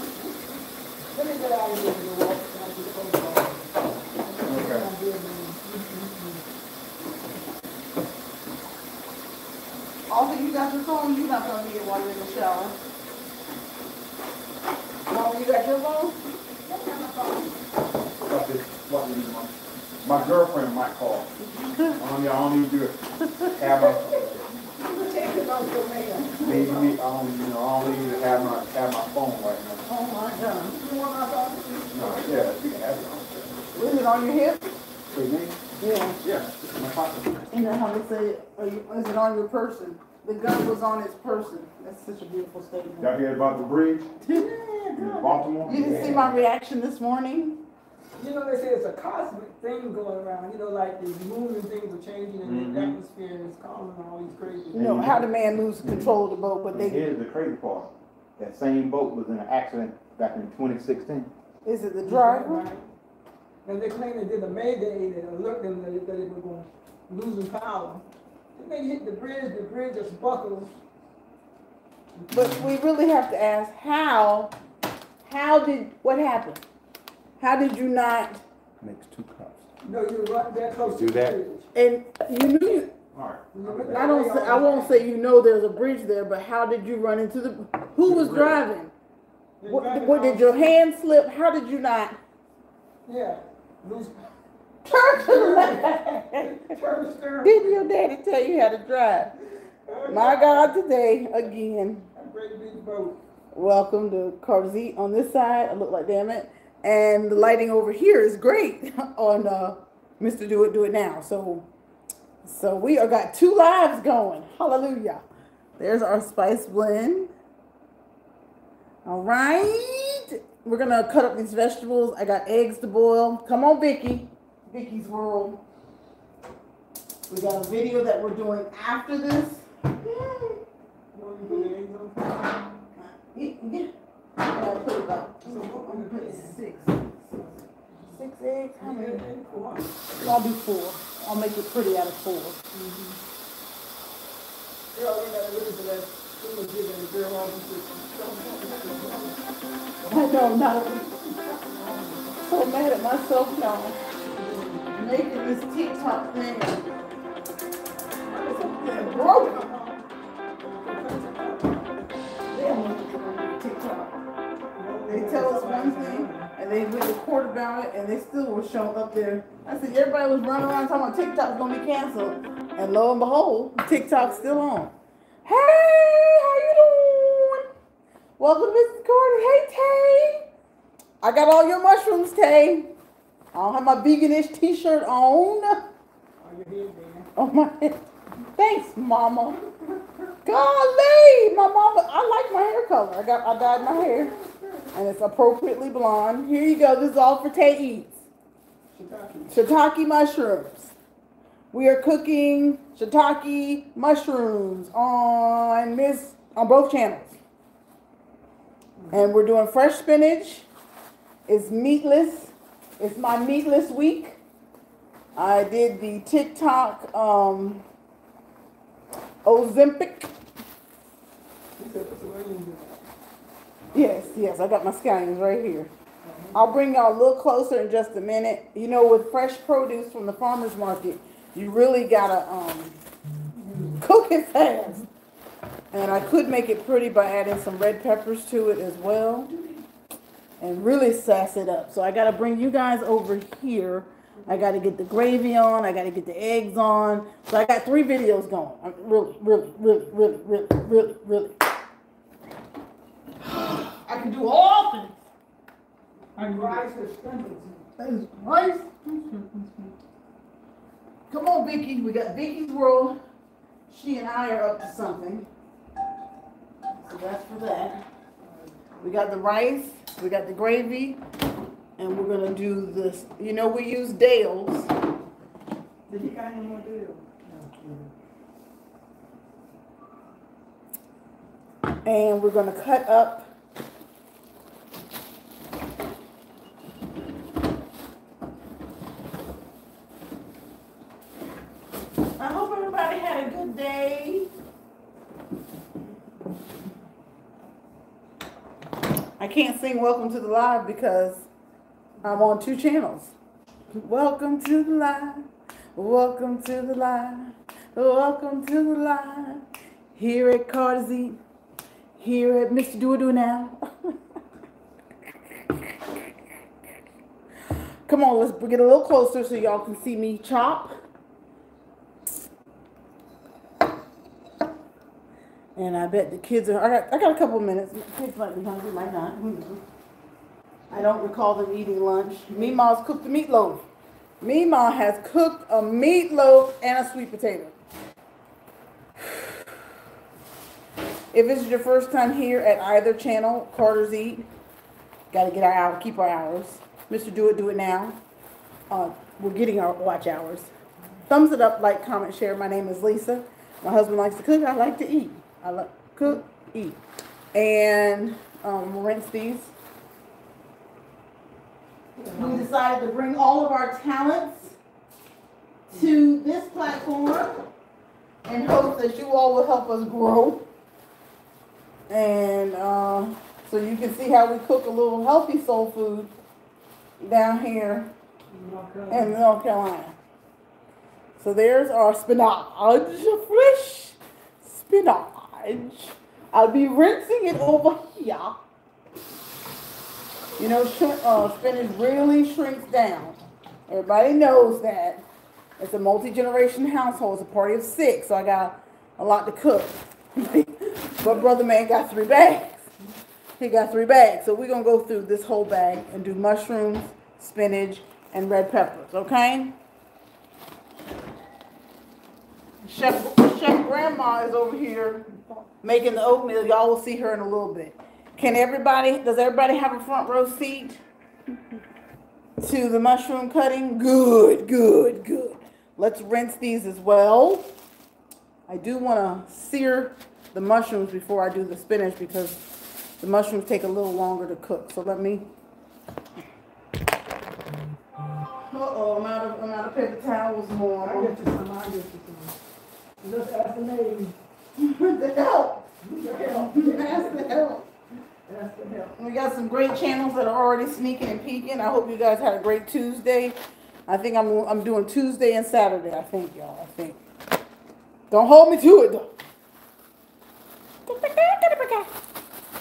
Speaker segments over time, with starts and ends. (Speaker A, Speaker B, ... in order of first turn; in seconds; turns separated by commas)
Speaker A: 1.1-3.6, Speaker A: 4.2-6.4, Speaker B: 4.4-4.8, Speaker C: 4.4-4.9, Speaker B: 10.1-12.8, Speaker B: 15.1-16.2, Speaker A: 16.6-17.6, Speaker C: 18.2-21.3, Speaker B: 21.4-22.0, Speaker C: 21.9-24.4, Speaker B: 23.4-24.0, Speaker A: 24.8-26.9, Speaker B: 26.1-26.7, Speaker C: 26.4-29.8, Speaker B: 29.9-32.4, Speaker A: 31.9-33.5, Speaker C: 31.9-33.0, Speaker B: 33.7-34.7, Speaker C: 35.1-35.6, Speaker B: 35.8-36.2, Speaker C: 36.2-37.5, Speaker B: 37.5-43.1, Speaker C: 43.0-44.1, Speaker B: 44.2-47.6, Speaker C: 45.0-46.5, Speaker A: 48.2-54.8, Speaker C: 52.4-53.0, Speaker C: 54.7-55.2, Speaker B: 54.8-57.1, Speaker C: 55.8-56.2, Speaker C: 56.7-61.3, Speaker B: 61.6-62.6, Speaker A: 62.0-62.9, Speaker A: 63.6-70.7, Speaker A: 72.2-72.5, Speaker B: 72.3-74.5, Speaker B: 75.2-76.6, Speaker B: 77.4-78.4, Speaker C: 78.8-79.7, Speaker A: 79.8-81.7, Speaker C: 80.7-81.4, Speaker B: 81.7-82.9, Speaker C: 83.1-84.1, Speaker A: 83.5-85.1, Speaker B: 83.9-88.9, Speaker C: 88.0-88.6, Speaker A: 89.6-90.7, Speaker B: 89.7-92.2, Speaker A: 93.1-94.2, Speaker B: 94.8-96.7, Speaker A: 95.2-97.9, Speaker B: 97.4-99.3, Speaker A: 99.9-100.7, Speaker B: 100.1-102.1, Speaker A: 102.1-103.2, Speaker B: 103.5-111.7, Speaker B: 112.4-115.2, Speaker B: 115.8-117.3, Speaker B: 119.0-125.6, Speaker B: 127.3-130.6, Speaker A: 131.1-132.7, Speaker B: 133.0-137.0, Speaker A: 135.4-138.2, Speaker B: 138.1-139.2, Speaker A: 138.8-140.0, Speaker B: 140.2-142.6, Speaker A: 142.7-143.2, Speaker A: 144.9-149.4, Speaker B: 150.1-151.4, Speaker A: 151.5-152.4, Speaker B: 152.4-154.0, Speaker A: 154.2-155.0, Speaker B: 154.9-156.9, Speaker A: 158.3-160.0, Speaker B: 158.4-159.7, Speaker A: 160.6-161.9, Speaker B: 162.5-164.1, Speaker A: 164.8-166.5, Speaker B: 165.1-174.9, Speaker A: 173.8-174.7, Speaker B: 175.4-177.7, Speaker B: 178.4-180.5, Speaker B: 181.2-182.9, Speaker B: 183.5-185.9, Speaker A: 186.4-187.3, Speaker B: 187.3-189.6, Speaker B: 190.4-194.3, Speaker A: 193.7-194.9, Speaker B: 194.9-198.2, Speaker A: 198.9-199.6, Speaker B: 199.5-200.9, Speaker B: 201.7-207.4, Speaker A: 209.0-209.3, Speaker B: 209.1-210.7, Speaker B: 211.5-214.4, Speaker B: 215.3-217.8, Speaker B: 219.4-220.3, Speaker A: 221.8-223.0, Speaker A: 223.9-224.4, Speaker B: 223.9-225.9, Speaker A: 226.2-226.7, Speaker B: 226.5-233.0, Speaker A: 233.6-234.0, Speaker B: 233.9-235.0, Speaker B: 235.9-239.7, Speaker B: 240.6-251.6, Speaker B: 253.4-255.1, Speaker A: 256.4-257.9, Speaker B: 256.4-256.8, Speaker B: 258.0-259.9, Speaker B: 261.3-263.2, Speaker B: 263.9-265.5, Speaker B: 267.0-268.0, Speaker A: 268.4-269.0, Speaker B: 269.0-271.2, Speaker B: 272.0-274.9, Speaker A: 276.1-278.1, Speaker B: 282.0-283.5, Speaker B: 292.4-294.5, Speaker B: 299.4-301.5, Speaker B: 302.2-303.3, Speaker B: 303.9-309.6, Speaker B: 310.1-311.4, Speaker B: 312.2-314.1, Speaker B: 315.7-316.3, Speaker B: 318.1-320.9, Speaker B: 325.8-329.8, Speaker B: 330.9-333.8, Speaker B: 334.4-337.7, Speaker B: 341.3-344.5, Speaker B: 345.3-348.2, Speaker B: 348.9-350.7, Speaker B: 351.3-357.0, Speaker B: 357.5-359.7, Speaker A: 362.2-362.7, Speaker B: 362.3-364.8, Speaker B: 365.9-367.6, Speaker B: 368.4-370.7, Speaker B: 372.1-376.3, Speaker B: 377.2-378.1, Speaker A: 378.5-379.4, Speaker B: 379.1-380.1, Speaker B: 381.4-388.6, Speaker B: 390.6-395.2, Speaker B: 395.8-402.9, Speaker B: 403.6-409.8, Speaker B: 412.8-415.3, Speaker B: 415.8-421.0, Speaker B: 422.6-427.7, Speaker B: 428.7-432.6, Speaker B: 433.2-435.5, Speaker B: 438.6-441.3, Speaker A: 441.0-442.5, Speaker A: 443.2-444.3, Speaker B: 444.8-445.8, Speaker A: 446.0-447.6, Speaker B: 446.4-447.9, Speaker A: 448.5-449.1, Speaker B: 449.2-457.2, Speaker B: 458.3-459.3, Speaker B: 461.1-462.1